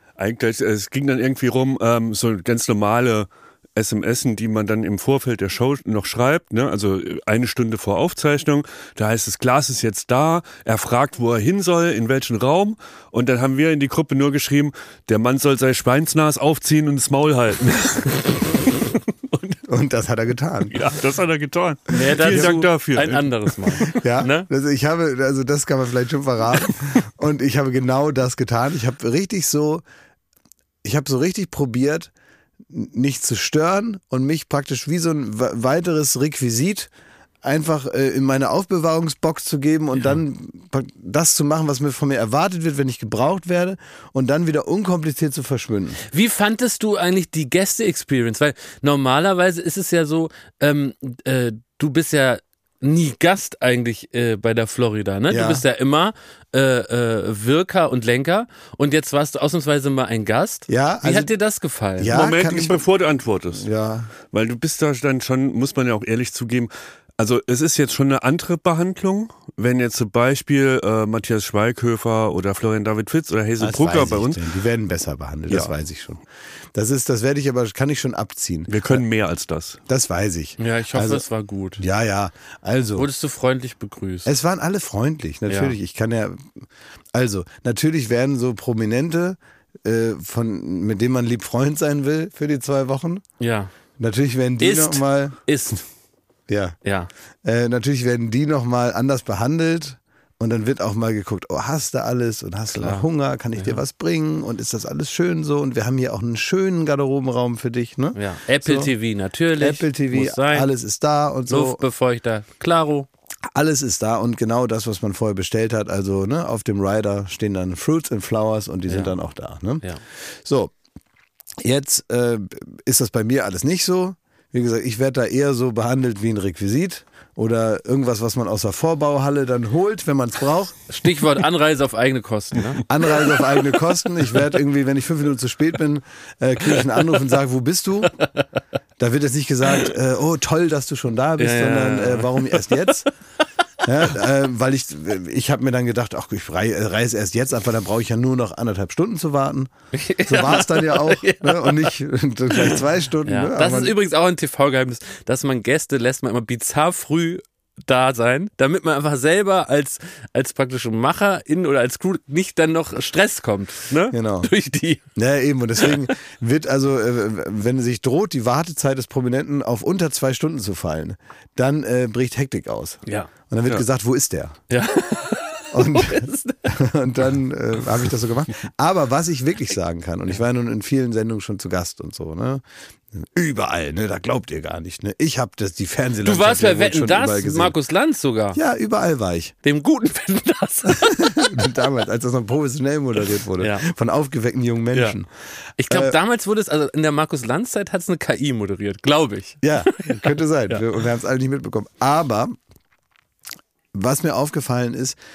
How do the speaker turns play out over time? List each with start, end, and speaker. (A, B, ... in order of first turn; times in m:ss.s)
0:00.2-0:19.6 A
0:19.7-0:20.8 B
0:20.7-0:23.7 A
0:21.9-0:24.5 C
0:22.2-0:22.7 B
0:23.8-0:29.8 B
0:30.8-0:32.1 B
0:32.7-0:36.9 B
0:37.4-0:46.0 B
0:46.1-1:02.1 C
0:55.3-0:55.6 B
1:00.7-1:01.3 B
1:02.0-1:02.8 B
1:02.1-1:03.7 A
1:03.5-1:04.1 B
1:04.3-1:14.4 A
1:13.6-1:16.2 B
1:16.7-1:19.0 B
1:18.7-1:19.8 A
1:19.9-1:21.2 B
1:20.6-1:21.8 C
1:21.8-1:23.1 B
1:23.0-1:24.3 C
1:24.2-1:26.6 B
1:25.5-1:25.8 C
1:27.1-1:33.2 B
1:33.4-1:33.7 C
1:34.0-1:35.4 B
1:34.6-1:35.8 C
1:36.5-1:36.8 B
1:36.8-1:37.1 C
1:37.4-1:48.9 B
1:42.7-1:43.8 C
1:48.2-1:50.7 C
1:49.6-1:51.8 B
1:51.5-1:53.1 C
1:53.5-2:00.7 B
1:58.9-1:59.1 C
2:01.6-2:10.8 B
2:10.9-2:13.2 C
2:12.9-2:18.2 B
2:18.2-2:18.5 C
2:19.0-2:23.1 B
2:21.4-2:22.9 C
2:23.8-2:29.7 B
2:29.9-2:32.0 C
2:30.2-2:34.0 B
2:32.5-2:45.1 C
2:44.1-2:44.5 B
2:45.2-2:54.6 B
2:54.7-2:56.7 C
2:55.7-3:07.8 B
3:06.2-3:08.6 C
3:08.5-3:09.6 B
3:09.6-3:11.6 C
3:11.0-3:15.3 B
3:13.6-3:13.9 C
3:15.8-3:20.8 C
3:15.9-3:16.2 B
3:19.6-3:22.6 B
3:23.9-3:25.2 B